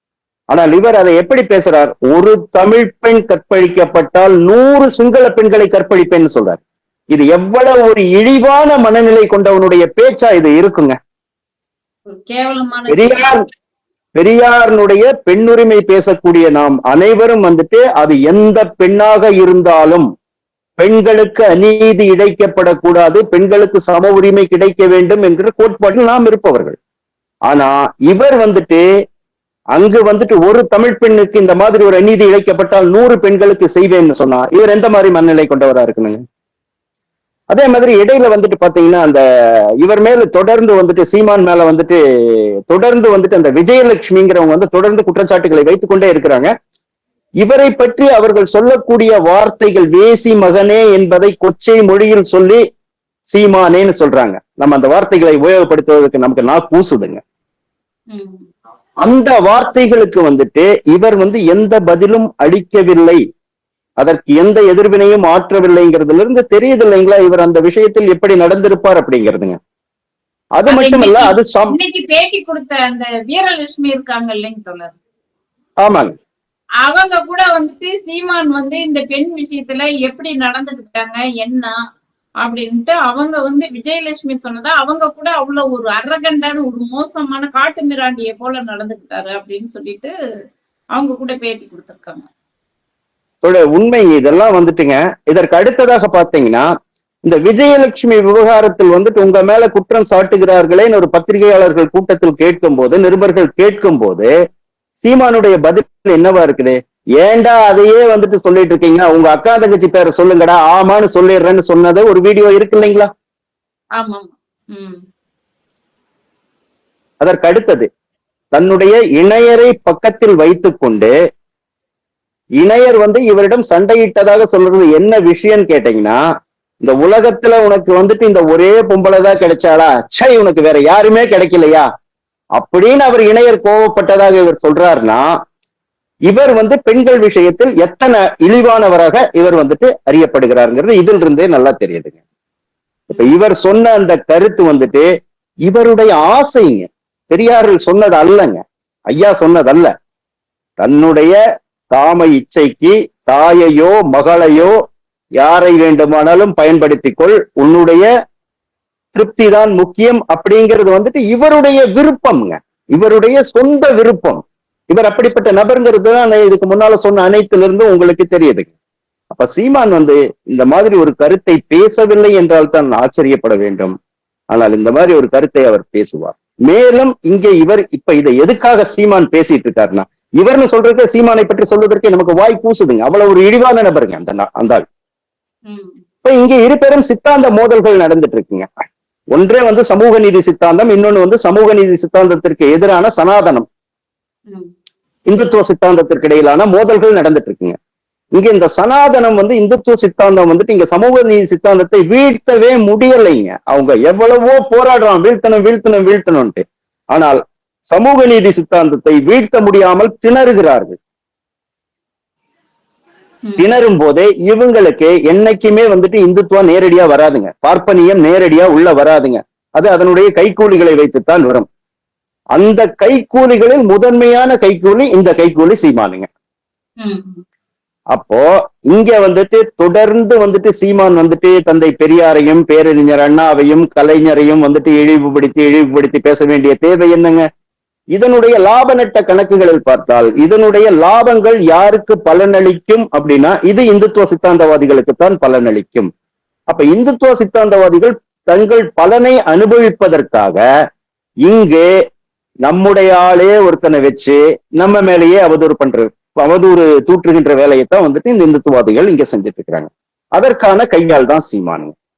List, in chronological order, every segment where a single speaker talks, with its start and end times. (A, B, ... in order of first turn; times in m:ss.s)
0:00.5-0:06.6 A
0:07.1-0:10.9 A
0:12.1-0:13.3 B
0:12.9-0:13.4 A
0:14.1-0:20.0 A
0:20.8-0:26.8 A
0:27.5-0:28.8 A
0:29.7-0:36.2 A
0:37.5-0:39.2 A
0:39.8-0:46.5 A
0:47.4-0:52.6 A
0:53.3-0:57.2 A
0:58.1-0:58.4 B
0:59.0-1:03.2 A
1:04.0-1:09.6 A
1:10.6-1:11.8 A
1:10.7-1:15.0 B
1:15.8-1:16.1 A
1:16.8-1:21.7 B
1:22.4-1:30.1 B
1:30.9-1:32.3 B
1:33.4-1:36.7 A
1:37.2-1:44.3 A
1:45.0-1:53.1 A
1:54.0-1:55.0 B
1:57.2-1:57.9 A
1:58.5-2:01.1 A
2:02.6-2:06.2 A
2:06.8-2:11.8 A
2:12.6-2:15.2 A
2:16.3-2:22.2 A
2:23.1-2:25.1 A
2:25.6-2:29.9 A
2:30.8-2:31.4 A
2:31.9-2:34.7 A
2:35.4-2:38.1 A
2:39.1-2:48.7 A
2:49.3-2:53.9 A
2:54.5-3:04.8 A
3:05.7-3:06.0 B
3:06.2-3:08.7 A
3:09.3-3:13.6 A
3:15.3-3:17.8 A
3:18.3-3:31.0 A
3:33.4-3:33.7 B
3:33.6-3:41.7 A
3:42.5-3:46.3 A
3:47.0-3:47.4 B
3:48.1-3:57.4 A
3:58.1-4:06.1 A
4:06.7-4:10.6 A
4:11.4-4:11.9 A
4:12.6-4:21.9 A